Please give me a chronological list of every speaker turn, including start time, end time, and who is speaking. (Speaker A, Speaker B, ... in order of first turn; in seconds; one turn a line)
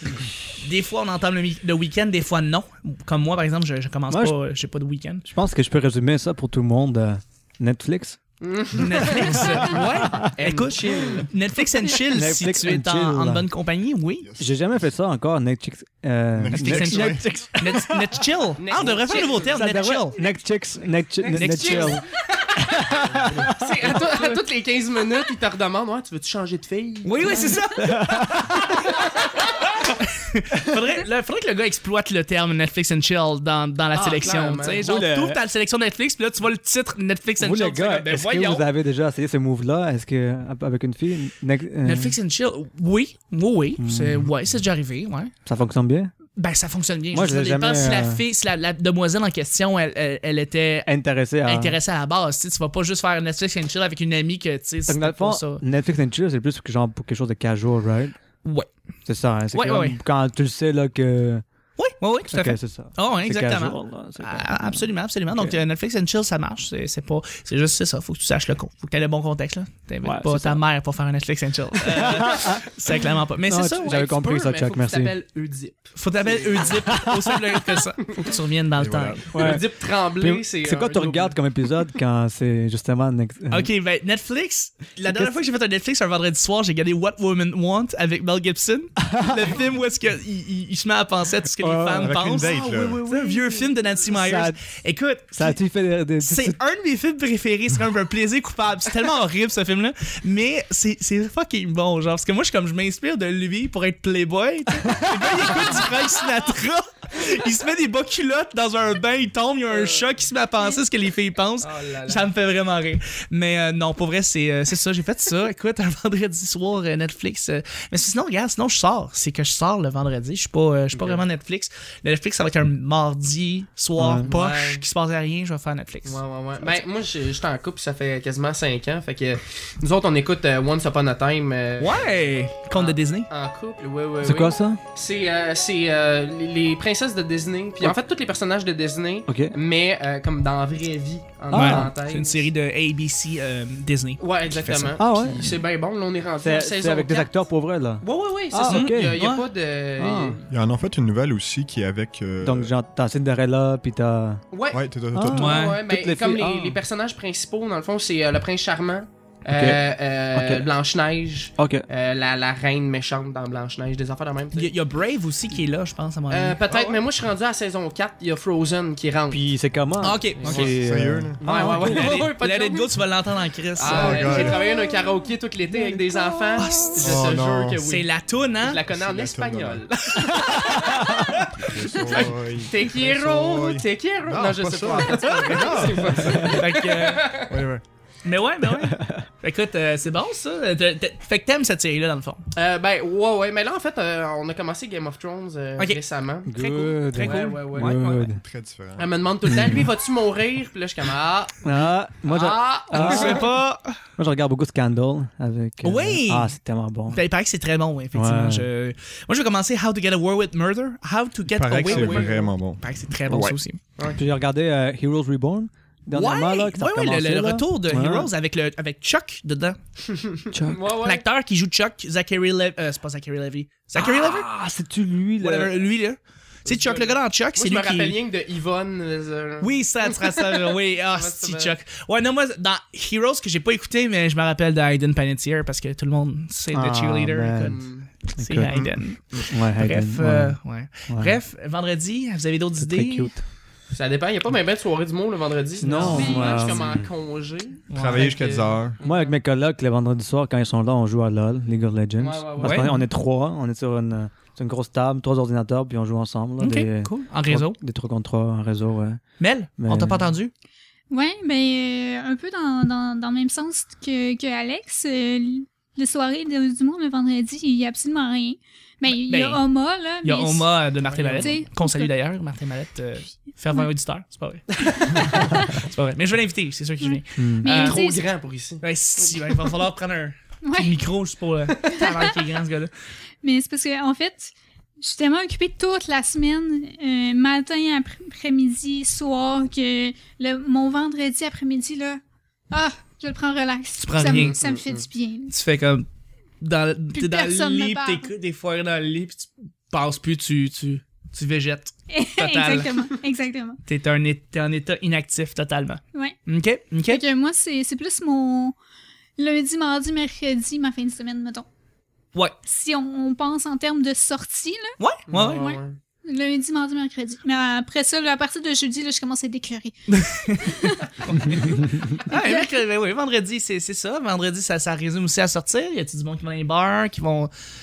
Speaker A: 0.5-5.2
Speaker B: 4.1-4.4
Speaker B: 5.2-8.2
Speaker C: 8.4-9.5
Speaker A: 8.7-14.3
Speaker B: 8.9-10.5
Speaker C: 10.4-11.3
Speaker B: 11.9-13.4
Speaker D: 14.2-14.8
Speaker B: 14.4-18.3
Speaker D: 16.4-17.2
Speaker A: 16.5-20.2
Speaker C: 18.6-19.6
Speaker B: 19.4-22.0
Speaker C: 21.1-27.6
Speaker A: 21.3-22.0
Speaker B: 22.6-24.4
Speaker D: 22.9-23.6
Speaker A: 27.0-38.6
Speaker B: 27.8-29.0
Speaker C: 33.9-34.9
Speaker B: 34.8-35.4
Speaker B: 37.4-42.2
Speaker A: 41.8-45.3
Speaker B: 43.8-44.3
Speaker B: 45.5-46.1
Speaker A: 46.4-50.9
Speaker B: 47.1-48.2
Speaker B: 50.8-51.8
Speaker A: 51.4-55.6
Speaker B: 54.9-58.1
Speaker A: 58.4-58.7
Speaker B: 59.1-61.4
Speaker A: 59.5-60.0
Speaker A: 61.8-74.0
Speaker B: 62.2-65.6
Speaker B: 70.0-70.6
Speaker B: 71.8-75.1
Speaker C: 73.8-77.0
Speaker A: 76.0-79.3
Speaker B: 76.8-77.4
Speaker C: 78.0-78.3
Speaker D: 78.7-79.4
Speaker B: 79.3-83.7
Speaker C: 79.4-81.4
Speaker A: 83.5-95.6
Speaker B: 85.0-85.3
Speaker B: 89.0-89.5
Speaker B: 91.6-92.1
Speaker D: 91.9-93.1
Speaker C: 92.4-93.7
Speaker B: 94.1-94.6
Speaker B: 95.3-96.6
Speaker A: 96.2-126.8
Speaker B: 104.9-105.6
Speaker C: 109.7-110.0
Speaker C: 111.6-112.3
Speaker C: 120.9-121.2
Speaker B: 124.0-124.3
Speaker C: 124.2-124.8
Speaker C: 126.0-132.1
Speaker A: 131.8-133.3
Speaker C: 132.7-142.5
Speaker B: 134.2-134.8
Speaker B: 139.3-139.5
Speaker B: 141.5-142.0
Speaker A: 141.5-145.0
Speaker C: 144.2-147.3
Speaker B: 145.0-145.6
Speaker B: 146.4-149.2
Speaker C: 148.0-150.4
Speaker A: 148.6-149.4
Speaker B: 150.0-150.4
Speaker D: 150.5-152.7
Speaker B: 152.4-154.4
Speaker C: 154.5-164.7
Speaker D: 154.7-155.5
Speaker B: 155.1-156.8
Speaker A: 155.3-155.8
Speaker B: 159.5-159.8
Speaker B: 160.3-160.7
Speaker B: 161.6-161.8
Speaker A: 164.5-167.0
Speaker C: 166.3-169.4
Speaker B: 169.3-172.2
Speaker A: 170.0-170.8
Speaker C: 170.4-170.7
Speaker D: 170.5-171.4
Speaker C: 171.4-172.9
Speaker A: 171.5-174.5
Speaker C: 173.8-178.1
Speaker D: 173.8-174.8
Speaker B: 175.7-176.0
Speaker A: 176.6-177.2
Speaker D: 177.0-177.8
Speaker A: 177.8-178.8
Speaker C: 178.6-181.1
Speaker D: 178.9-179.8
Speaker A: 180.2-181.4
Speaker B: 180.4-181.3
Speaker D: 181.5-186.8
Speaker C: 181.7-187.5
Speaker B: 185.3-186.6
Speaker A: 186.4-187.3
Speaker D: 187.5-187.8
Speaker A: 188.2-192.4
Speaker B: 188.7-189.2
Speaker C: 192.6-196.5
Speaker A: 195.8-198.1
Speaker B: 196.4-198.4
Speaker C: 197.1-198.3
Speaker D: 198.2-199.7
Speaker C: 199.0-203.4
Speaker B: 199.5-199.8
Speaker B: 201.6-203.5
Speaker A: 202.9-204.0
Speaker B: 204.2-207.2
Speaker A: 205.8-206.5
Speaker A: 207.1-213.8
Speaker B: 208.1-208.7
Speaker D: 211.5-213.6
Speaker C: 211.9-212.5
Speaker C: 214.0-214.2
Speaker B: 214.1-218.3
Speaker A: 216.1-219.8
Speaker C: 220.1-221.2
Speaker B: 220.5-220.8
Speaker A: 220.9-224.5
Speaker B: 223.9-225.8
Speaker A: 225.4-228.2
Speaker C: 226.7-231.7
Speaker A: 229.6-243.3
Speaker B: 236.7-237.8
Speaker C: 237.6-238.1
Speaker B: 238.4-241.4
Speaker B: 242.8-243.4
Speaker C: 243.9-249.4
Speaker B: 245.8-247.0
Speaker A: 245.9-246.2
Speaker E: 246.0-246.7
Speaker A: 247.9-248.3
Speaker D: 247.9-249.0
Speaker B: 249.0-259.2
Speaker C: 252.2-253.0
Speaker A: 252.6-253.0
Speaker A: 256.6-257.8
Speaker A: 259.4-260.5
Speaker B: 259.8-260.3
Speaker E: 261.1-270.8
Speaker A: 269.1-269.6
Speaker A: 270.2-278.0
Speaker C: 271.0-271.6
Speaker E: 271.4-272.1
Speaker E: 275.3-275.7
Speaker E: 277.0-278.2
Speaker B: 277.4-277.7
Speaker C: 277.7-279.7
Speaker A: 278.8-282.9
Speaker E: 280.6-280.9
Speaker C: 281.8-282.2
Speaker E: 282.0-282.3
Speaker E: 283.4-295.5
Speaker A: 294.0-294.6
Speaker C: 294.2-295.1
Speaker A: 295.5-296.1
Speaker A: 296.6-303.0
Speaker E: 297.1-298.3
Speaker E: 302.1-303.8
Speaker A: 303.9-307.2
Speaker E: 307.1-308.7
Speaker E: 309.4-311.6
Speaker E: 312.6-322.7
Speaker A: 315.0-315.7
Speaker C: 315.3-316.0
Speaker A: 320.1-327.5
Speaker B: 321.3-322.2